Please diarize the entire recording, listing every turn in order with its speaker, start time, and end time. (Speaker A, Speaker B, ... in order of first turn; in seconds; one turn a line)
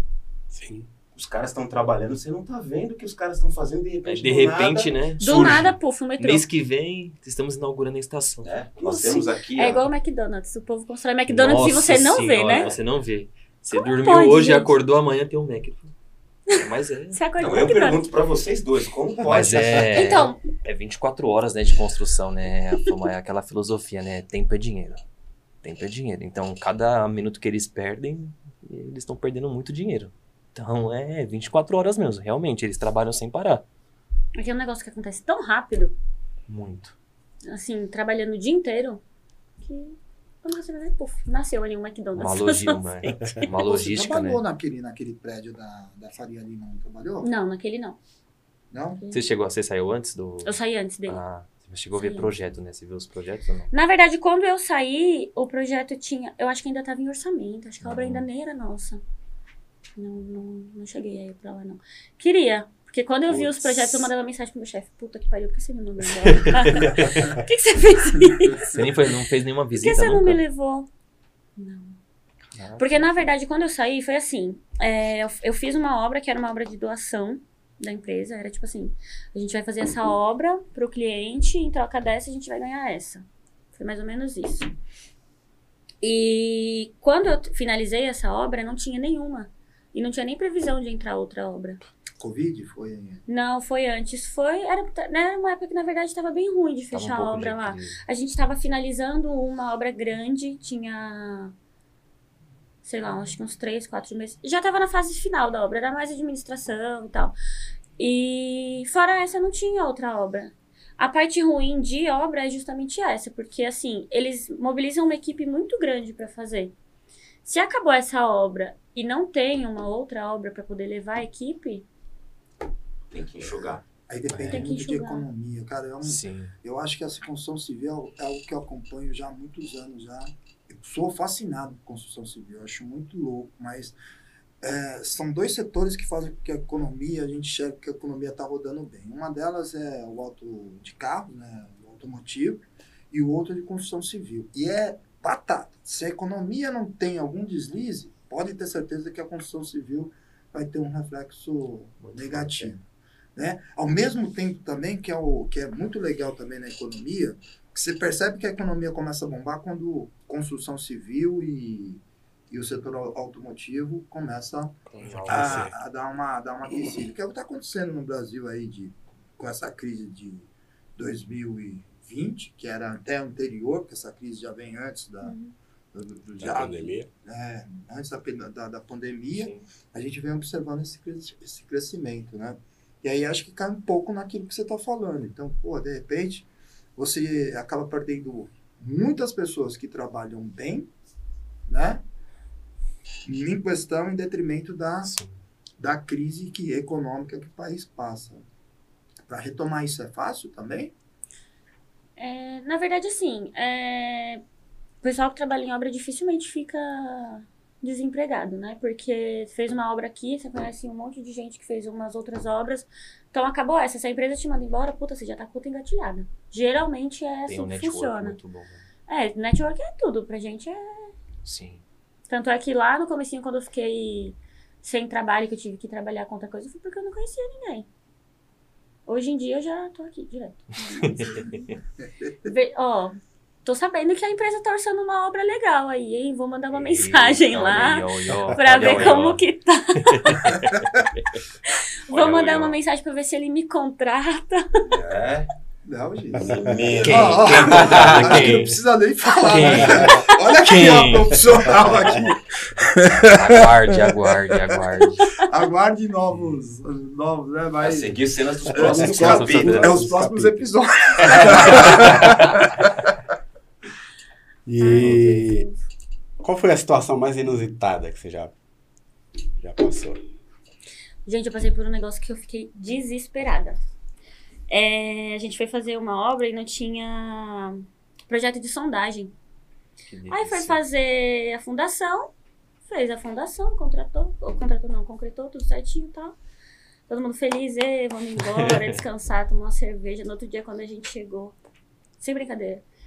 Speaker A: 0.5-0.9
Speaker B: 1.1-5.6
Speaker C: 4.0-8.5
Speaker D: 5.2-6.5
Speaker B: 8.4-9.9
Speaker D: 8.8-12.7
Speaker C: 11.3-15.9
Speaker D: 13.7-14.7
Speaker C: 16.5-17.2
Speaker D: 16.5-18.1
Speaker B: 17.4-20.0
Speaker C: 19.2-25.0
Speaker D: 19.9-20.4
Speaker C: 25.6-33.6
Speaker D: 34.4-35.9
Speaker C: 36.5-37.0
Speaker D: 37.4-39.0
Speaker D: 39.6-43.5
Speaker C: 42.1-44.4
Speaker E: 43.6-47.3
Speaker D: 47.2-48.0
Speaker E: 48.7-49.0
Speaker D: 48.9-49.2
Speaker C: 49.1-53.7
Speaker D: 50.4-51.2
Speaker D: 52.0-52.3
Speaker D: 53.7-59.0
Speaker C: 57.8-58.2
Speaker D: 60.0-68.8
Speaker C: 63.3-64.1
Speaker C: 66.3-67.4
Speaker C: 68.5-70.4
Speaker D: 69.8-70.9
Speaker D: 71.6-72.0
Speaker C: 72.5-73.1
Speaker D: 72.8-84.7
Speaker D: 86.0-91.8
Speaker E: 92.2-93.2
Speaker D: 93.3-101.5
Speaker C: 96.9-98.0
Speaker D: 102.8-107.3
Speaker D: 108.0-116.7
Speaker D: 117.4-121.8
Speaker B: 123.1-123.8
Speaker E: 123.4-134.0
Speaker C: 124.3-124.7
Speaker D: 124.5-125.2
Speaker C: 126.0-126.5
Speaker E: 134.6-152.8
Speaker C: 152.0-152.7
Speaker E: 153.3-175.3
Speaker C: 164.9-165.7
Speaker A: 165.1-165.7
Speaker D: 175.2-175.5
Speaker E: 175.9-190.9
Speaker A: 176.4-177.1
Speaker C: 179.3-179.6
Speaker E: 191.7-192.0
Speaker E: 193.2-195.1
Speaker C: 195.0-195.3
Speaker E: 195.8-198.4
Speaker E: 199.3-200.9
Speaker D: 202.2-204.4
Speaker D: 205.0-218.4
Speaker C: 217.5-218.8
Speaker D: 219.1-221.1
Speaker C: 221.4-221.8
Speaker D: 222.3-227.9
Speaker D: 229.1-231.7
Speaker C: 231.0-231.7
Speaker D: 232.4-240.6
Speaker C: 236.7-239.4
Speaker C: 240.1-241.4
Speaker D: 241.6-244.9
Speaker C: 242.1-242.8
Speaker B: 244.9-245.5
Speaker E: 245.8-254.8
Speaker B: 246.3-248.6
Speaker C: 247.0-248.8
Speaker A: 247.8-248.4
Speaker C: 249.3-251.5
Speaker C: 253.2-255.4
Speaker E: 255.3-258.1
Speaker B: 257.8-260.1
Speaker A: 258.7-260.7
Speaker E: 258.7-262.9
Speaker B: 261.2-262.6
Speaker A: 262.0-262.3
Speaker A: 264.6-265.7
Speaker D: 264.8-265.8
Speaker A: 266.4-268.5
Speaker A: 269.6-270.2
Speaker D: 271.2-273.8
Speaker D: 274.7-279.3
Speaker C: 280.1-280.8
Speaker D: 280.3-282.3
Speaker D: 282.8-286.4
Speaker D: 287.1-291.5
Speaker C: 288.4-289.0
Speaker D: 292.2-292.8